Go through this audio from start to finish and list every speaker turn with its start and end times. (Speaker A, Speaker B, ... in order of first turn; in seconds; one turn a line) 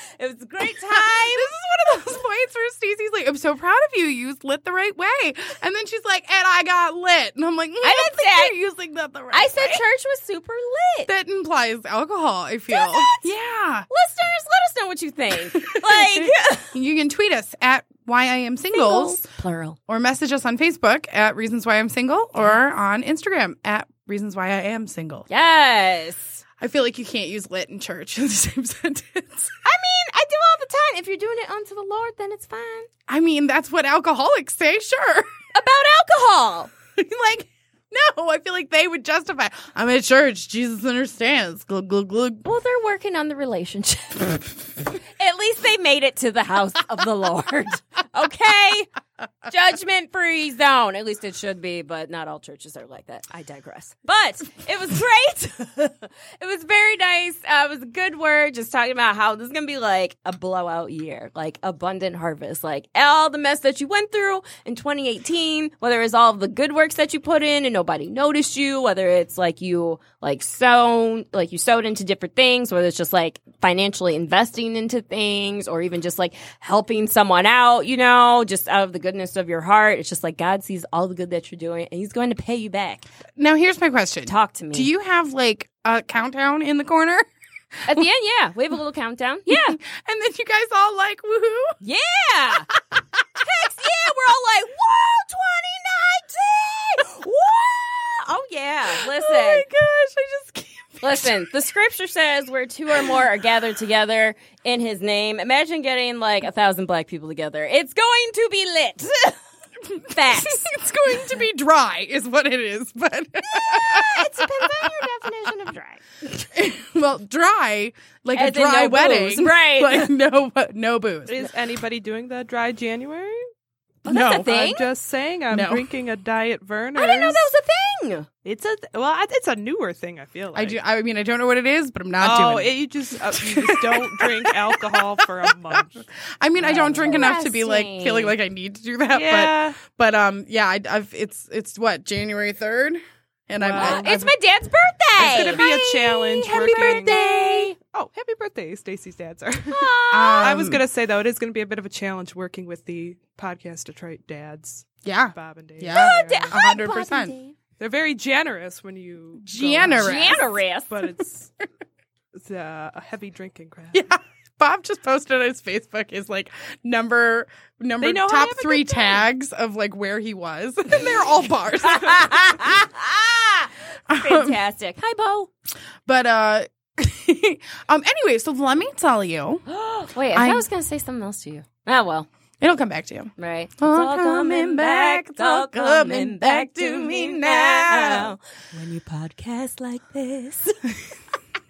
Speaker A: 0.2-1.5
Speaker B: 0.8-9.8
Speaker A: 7.8-8.5
Speaker A: 9.3-11.1
Speaker B: 11.1-13.9
Speaker A: 12.7-13.2
Speaker A: 13.9-16.7
Speaker B: 15.6-19.2
Speaker A: 18.7-19.8
Speaker B: 19.9-25.3
Speaker A: 25.3-26.4
Speaker B: 26.6-29.5
Speaker A: 29.6-32.9
Speaker B: 33.1-35.3
Speaker A: 35.5-36.7
Speaker B: 37.0-42.4
Speaker A: 42.4-44.4
Speaker A: 45.1-48.9
Speaker A: 49.5-83.0
Speaker B: 83.4-87.3
Speaker A: 84.2-84.9
Speaker B: 87.8-88.1
Speaker A: 87.9-89.8
Speaker B: 89.5-91.8
Speaker A: 91.8-92.7
Speaker B: 92.7-93.2
Speaker A: 93.4-99.7
Speaker B: 98.9-101.5
Speaker A: 101.0-109.4
Speaker B: 102.9-103.2
Speaker B: 109.9-115.0
Speaker A: 110.1-110.7
Speaker A: 113.5-116.4
Speaker B: 116.5-121.5
Speaker A: 118.3-120.1
Speaker C: 121.3-123.5
Speaker A: 124.0-124.8
Speaker B: 124.1-124.5
Speaker C: 124.3-127.5
Speaker B: 125.5-125.8
Speaker A: 127.0-128.3
Speaker C: 128.4-130.8
Speaker B: 130.6-132.7
Speaker C: 132.2-136.1
Speaker B: 133.3-135.8
Speaker B: 136.4-144.3
Speaker C: 136.6-137.3
Speaker A: 136.6-138.3
Speaker C: 139.1-139.8
Speaker C: 143.6-144.2
Speaker A: 143.8-147.8
Speaker B: 145.2-145.8
Speaker C: 145.2-147.2
Speaker B: 146.4-147.7
Speaker C: 147.8-156.6
Speaker A: 149.7-150.6
Speaker B: 150.1-150.8
Speaker B: 155.1-157.3
Speaker A: 155.9-157.5
Speaker C: 157.8-161.5
Speaker B: 159.4-160.4
Speaker A: 159.9-160.9
Speaker C: 162.3-164.0
Speaker B: 163.9-172.4
Speaker C: 168.0-169.2
Speaker A: 171.8-175.5
Speaker B: 174.1-174.6
Speaker B: 176.1-179.6
Speaker A: 179.7-182.3
Speaker B: 180.3-180.7
Speaker B: 182.6-188.3
Speaker A: 183.4-190.8